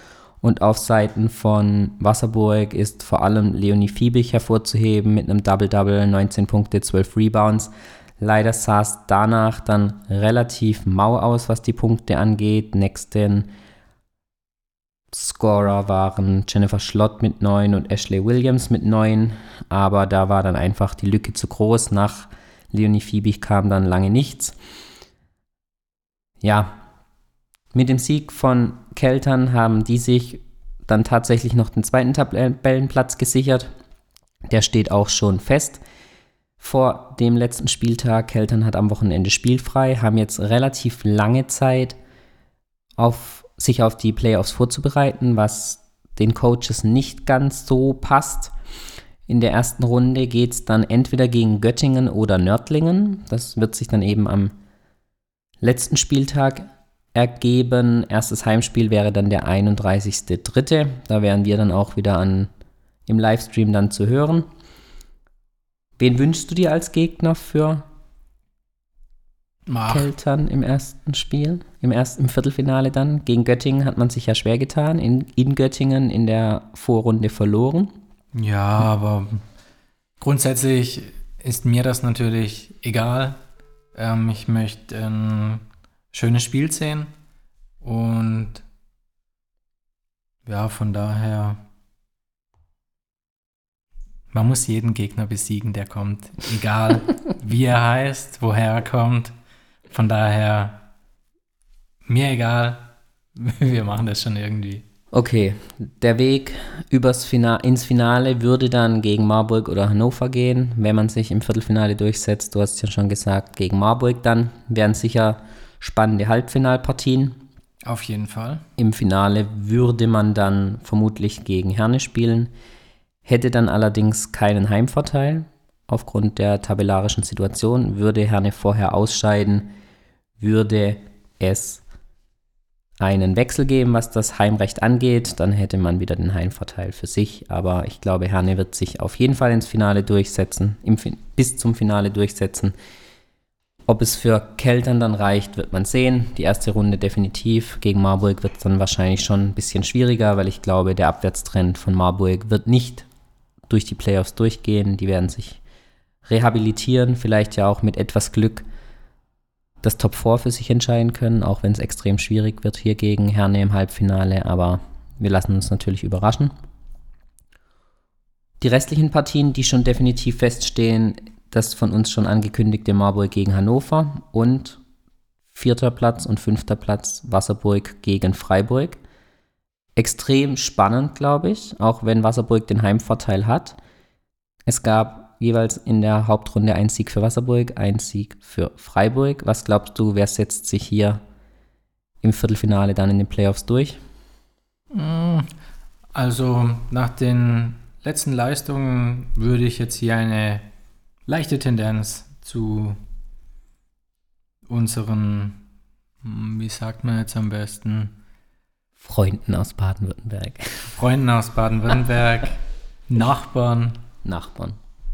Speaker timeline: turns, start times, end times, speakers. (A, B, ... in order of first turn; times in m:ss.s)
0:00.4-0:13.5 A
0:15.1-0:24.5 A
0:26.4-0:26.8 A
0:27.7-0:33.7 A
0:34.5-0:35.8 A
0:36.6-0:42.0 A
0:43.0-0:48.5 A
0:49.3-0:54.5 A
0:55.6-1:02.5 A
1:03.1-1:04.5 A
1:06.0-1:07.8 A
1:09.7-1:10.1 B
1:09.9-1:17.9 A
1:18.3-1:19.4 B
1:20.2-1:23.4 B
1:23.9-1:27.1 B
1:27.8-1:28.6 B
1:30.4-1:31.6 B
1:34.3-1:39.3 B
1:39.9-1:40.9 B
1:42.0-1:44.8 B
1:45.1-1:57.4 A
1:57.8-1:58.6 B
1:58.8-2:02.5 A
2:03.2-2:09.7 A
2:10.4-2:11.8 A
2:13.0-2:22.7 A
2:23.9-2:33.1 A
2:33.7-2:35.6 A
2:36.2-2:38.6 A
2:39.8-2:46.5 A
2:48.6-2:54.8 A
2:55.5-2:59.0 A
3:00.0-3:03.8 A
3:04.7-3:11.2 A
3:12.2-3:14.0 A
3:14.9-3:15.5 B
3:16.1-3:20.7 B
3:21.2-3:23.0 B
3:24.7-3:25.6 B
3:26.2-3:28.1 B
3:29.0-3:30.9 A
3:30.9-3:34.0 B
3:34.2-3:34.8 A